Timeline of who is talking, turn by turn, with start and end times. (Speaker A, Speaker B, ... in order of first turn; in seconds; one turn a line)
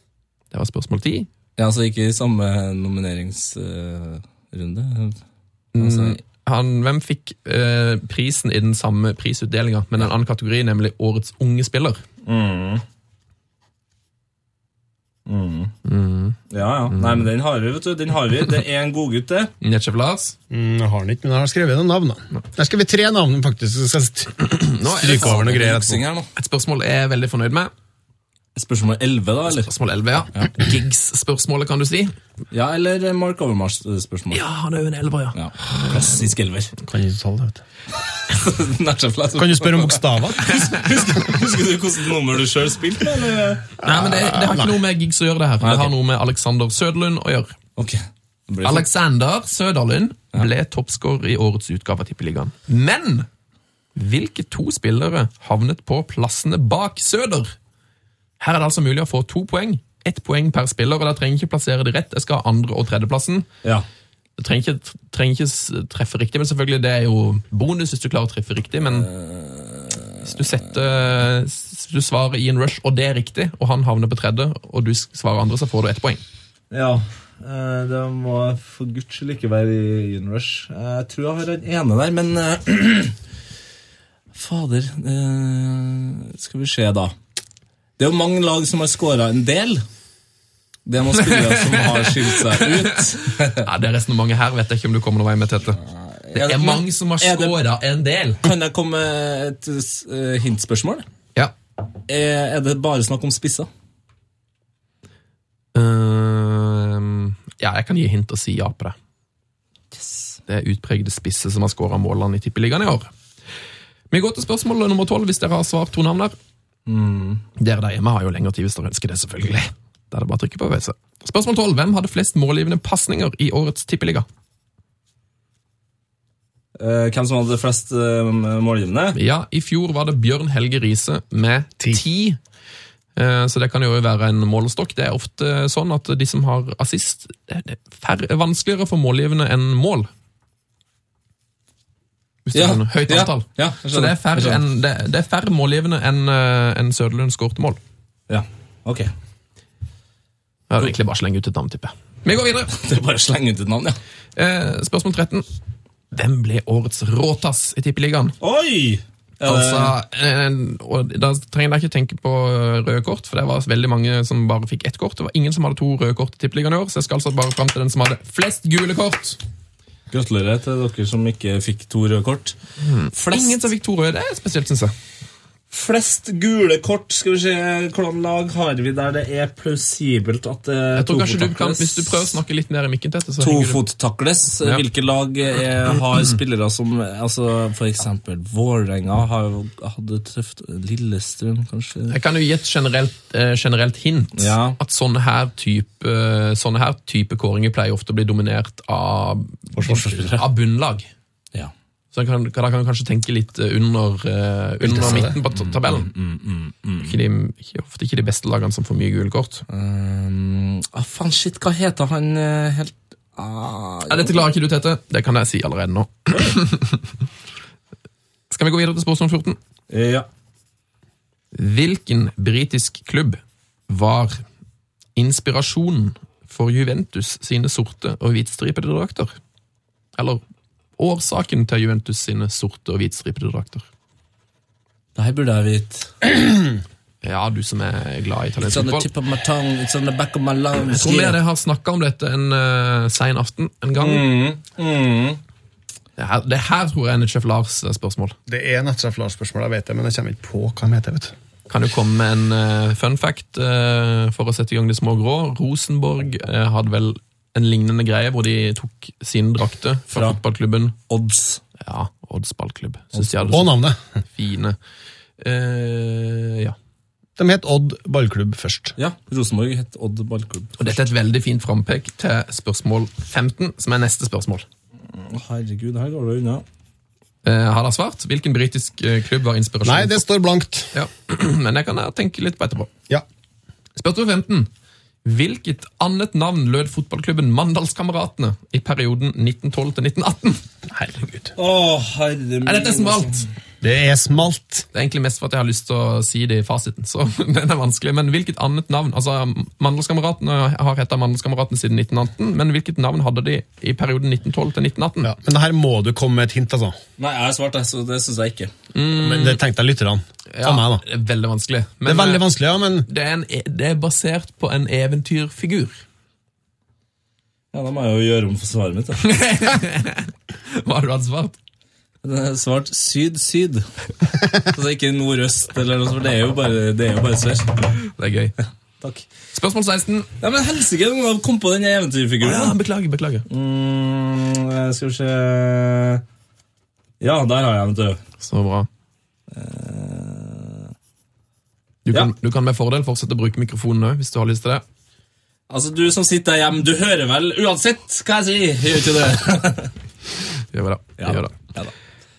Speaker A: 0.5-1.3
Speaker B: 1.6-5.2
Speaker A: 5.7-12.0
Speaker B: 5.8-6.2
Speaker B: 12.2-12.8
Speaker B: 15.3-15.7
Speaker A: 15.8-16.4
Speaker B: 16.5-19.5
Speaker A: 16.9-17.2
Speaker A: 19.6-20.3
Speaker C: 20.5-26.0
Speaker A: 24.4-27.7
Speaker B: 25.0-26.3
Speaker B: 28.6-29.7
Speaker A: 29.6-32.1
Speaker B: 32.5-34.4
Speaker A: 34.3-36.2
Speaker B: 35.3-36.7
Speaker C: 36.9-37.6
Speaker B: 38.3-43.7
Speaker C: 39.3-41.0
Speaker C: 43.8-44.8
Speaker A: 43.8-47.5
Speaker B: 45.6-45.9
Speaker B: 47.8-48.9
Speaker A: 48.6-53.3
Speaker A: 54.0-57.5
Speaker A: 58.4-63.5
Speaker A: 64.4-69.1
Speaker B: 68.8-70.7
Speaker A: 70.2-76.2
Speaker B: 76.7-83.2
Speaker B: 84.3-87.1
Speaker B: 88.0-89.8
Speaker B: 90.9-93.7
Speaker A: 91.2-95.8
Speaker B: 95.9-97.5
Speaker A: 96.3-98.4
Speaker B: 98.4-101.0
Speaker B: 102.1-103.7
Speaker A: 105.7-108.9
Speaker B: 109.9-110.4
Speaker A: 110.5-113.1
Speaker A: 114.1-116.3
Speaker B: 116.9-117.4
Speaker A: 117.6-124.2
Speaker B: 126.8-129.2
Speaker A: 129.1-132.4
Speaker A: 133.2-140.1
Speaker A: 142.4-147.8
Speaker B: 142.5-144.6
Speaker B: 148.3-149.1
Speaker A: 150.7-152.7
Speaker B: 152.7-154.0
Speaker A: 154.3-155.4
Speaker A: 156.1-158.4
Speaker B: 158.4-159.9
Speaker A: 159.4-169.4
Speaker B: 170.1-172.6
Speaker A: 172.8-174.9
Speaker B: 173.1-173.6
Speaker B: 175.7-182.3
Speaker A: 180.9-183.8
Speaker B: 183.4-192.2
Speaker A: 192.1-201.1
Speaker B: 194.3-194.8
Speaker C: 199.8-200.3
Speaker B: 199.8-200.4
Speaker A: 202.1-206.1
Speaker C: 204.8-205.4
Speaker B: 205.5-207.1
Speaker A: 207.0-209.6
Speaker B: 209.7-214.4
Speaker A: 214.1-217.1
Speaker B: 216.3-216.6
Speaker A: 218.5-219.6
Speaker B: 219.9-220.3
Speaker A: 221.5-224.4
Speaker A: 225.2-229.3
Speaker A: 230.2-230.4
Speaker A: 231.0-233.8
Speaker B: 235.1-236.2
Speaker A: 237.2-239.1
Speaker B: 238.6-241.4
Speaker A: 240.9-244.3
Speaker B: 244.0-245.4
Speaker A: 246.2-248.3
Speaker C: 248.5-251.3
Speaker A: 251.7-260.9
Speaker B: 260.1-260.4
Speaker B: 261.1-261.6
Speaker A: 261.8-263.8
Speaker B: 263.1-263.4
Speaker C: 263.5-264.0
Speaker A: 264.4-264.8
Speaker A: 265.4-266.8
Speaker C: 267.4-268.9
Speaker B: 268.9-270.9
Speaker A: 270.8-274.6
Speaker B: 275.1-276.6
Speaker A: 277.4-280.2
Speaker C: 279.8-280.9
Speaker A: 280.9-282.9
Speaker A: 283.9-284.7
Speaker A: 285.2-290.6
Speaker C: 290.9-291.5
Speaker B: 291.6-293.5
Speaker A: 292.6-293.4
Speaker C: 293.8-294.9
Speaker A: 294.9-305.3
Speaker C: 305.2-306.9
Speaker B: 307.2-308.7
Speaker A: 308.9-309.6
Speaker C: 309.1-311.0
Speaker A: 310.5-312.5
Speaker C: 312.0-313.1
Speaker A: 313.1-316.0
Speaker B: 317.7-319.2
Speaker A: 319.2-321.6
Speaker B: 322.2-323.8
Speaker B: 324.6-327.9
Speaker A: 328.2-328.6
Speaker B: 329.0-329.3
Speaker A: 329.5-330.3
Speaker B: 330.4-332.7
Speaker A: 332.4-333.4
Speaker B: 333.5-336.2
Speaker B: 337.2-338.2
Speaker A: 338.4-338.9
Speaker B: 339.5-340.9
Speaker A: 342.1-344.8
Speaker B: 345.7-349.9
Speaker A: 350.7-351.5
Speaker B: 351.2-351.9